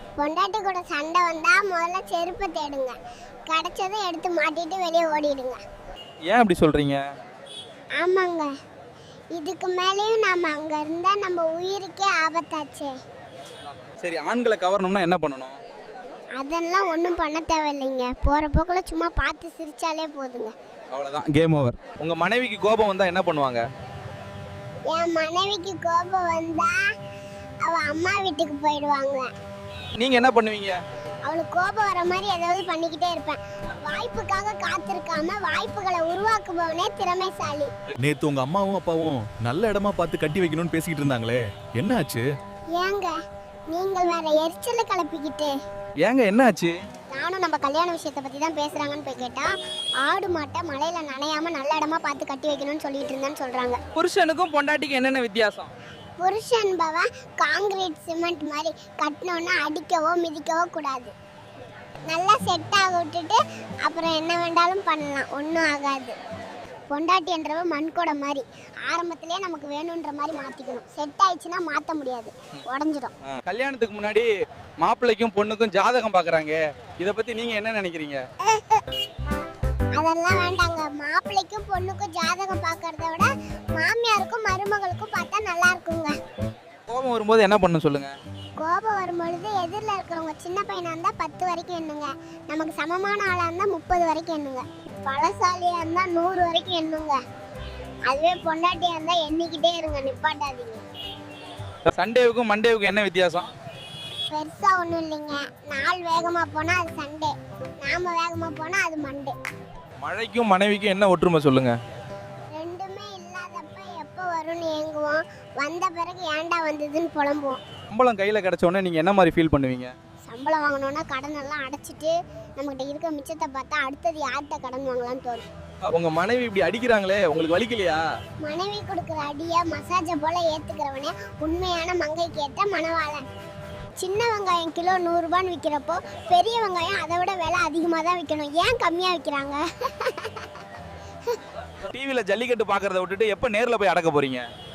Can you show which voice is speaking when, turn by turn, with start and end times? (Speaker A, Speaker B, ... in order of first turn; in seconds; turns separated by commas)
Speaker A: 0.2-3.0, Speaker A: 3.5-5.6, Speaker B: 6.3-7.0, Speaker A: 8.0-8.5, Speaker A: 9.3-12.9, Speaker B: 14.0-15.6, Speaker A: 16.4-20.5, Speaker B: 20.9-23.6, Speaker A: 24.9-26.8, Speaker A: 27.6-29.3, Speaker B: 30.0-30.8, Speaker A: 31.2-37.7, Speaker C: 38.0-42.2, Speaker B: 40.3-41.4, Speaker A: 42.7-43.1, Speaker A: 43.7-45.5, Speaker B: 46.0-46.8, Speaker A: 47.1-49.5, Speaker A: 50.0-53.8, Speaker B: 54.0-55.7, Speaker A: 56.2-61.1, Speaker A: 62.1-66.2, Speaker A: 66.9-73.1, Speaker B: 73.3-74.3, Speaker B: 74.8-78.2, Speaker A: 78.5-78.8, Speaker A: 80.0-86.2, Speaker B: 86.9-88.1, Speaker A: 88.6-97.2, Speaker A: 98.1-100.8, Speaker B: 101.9-103.5, Speaker A: 104.3-109.3, Speaker B: 110.0-111.8, Speaker A: 112.5-117.6, Speaker B: 117.9-119.9, Speaker A: 120.3-125.5, Speaker B: 125.9-128.0, Speaker A: 128.4-133.2, Speaker A: 134.0-140.4, Speaker B: 141.8-144.4